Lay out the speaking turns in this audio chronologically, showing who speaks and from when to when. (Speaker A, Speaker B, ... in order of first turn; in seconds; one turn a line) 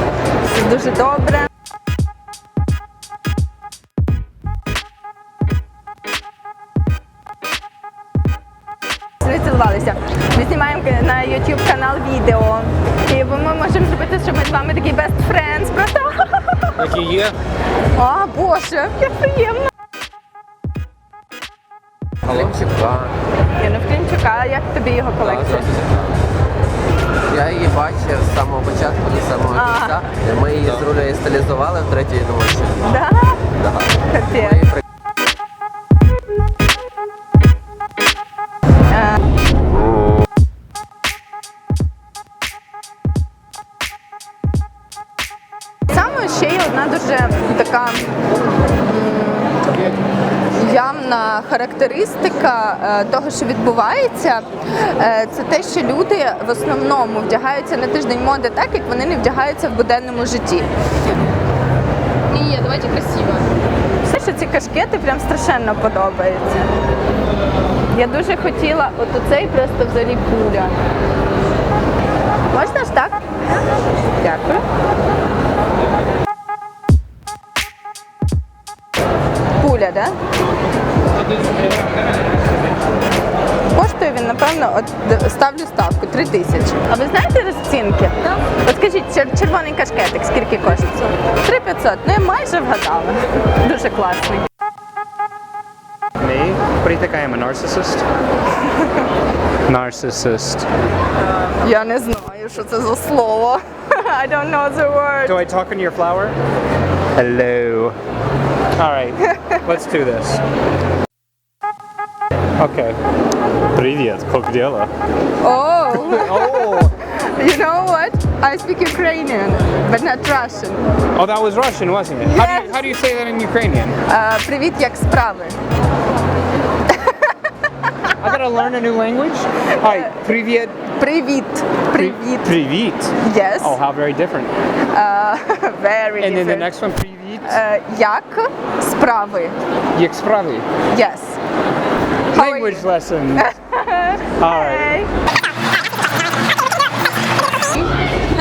Speaker A: 0.4-1.5
Speaker A: 9.2-16.9
Speaker B: 17.0-17.3
Speaker A: 17.9-19.7
Speaker C: 22.3-23.1
Speaker A: 23.6-25.7
Speaker C: 25.2-25.7
Speaker C: 27.3-32.8
Speaker A: 29.5-30.0
Speaker A: 32.8-33.4
Speaker C: 33.6-34.8
Speaker A: 34.1-34.7
Speaker A: 45.9-48.0
Speaker A: 48.9-49.5
Speaker A: 50.5-60.7
Speaker A: 62.3-63.1
Speaker A: 64.0-66.7
Speaker A: 67.9-70.7
Speaker A: 72.5-73.2
Speaker A: 74.2-74.6
Speaker A: 79.6-80.2
Speaker A: 83.7-94.5
Speaker B: 96.2-98.0
Speaker B: 99.7-100.7
Speaker A: 101.6-105.4
Speaker B: 105.2-106.4
Speaker B: 107.1-108.0
Speaker B: 108.8-110.4
Speaker B: 112.6-113.0
Speaker B: 113.7-114.9
Speaker A: 115.4-120.8
Speaker B: 116.2-116.9
Speaker B: 121.1-124.0
Speaker A: 122.2-123.0
Speaker A: 124.1-125.6
Speaker A: 126.9-127.3
Speaker B: 128.2-130.8
Speaker A: 129.8-130.2
Speaker A: 130.8-132.5
Speaker B: 131.9-134.5
Speaker A: 133.2-133.8
Speaker A: 134.9-136.7
Speaker B: 136.2-137.6
Speaker A: 137.4-139.5
Speaker B: 139.9-140.7
Speaker A: 140.9-141.4
Speaker B: 142.3-143.4
Speaker A: 142.3-145.1
Speaker B: 144.4-145.0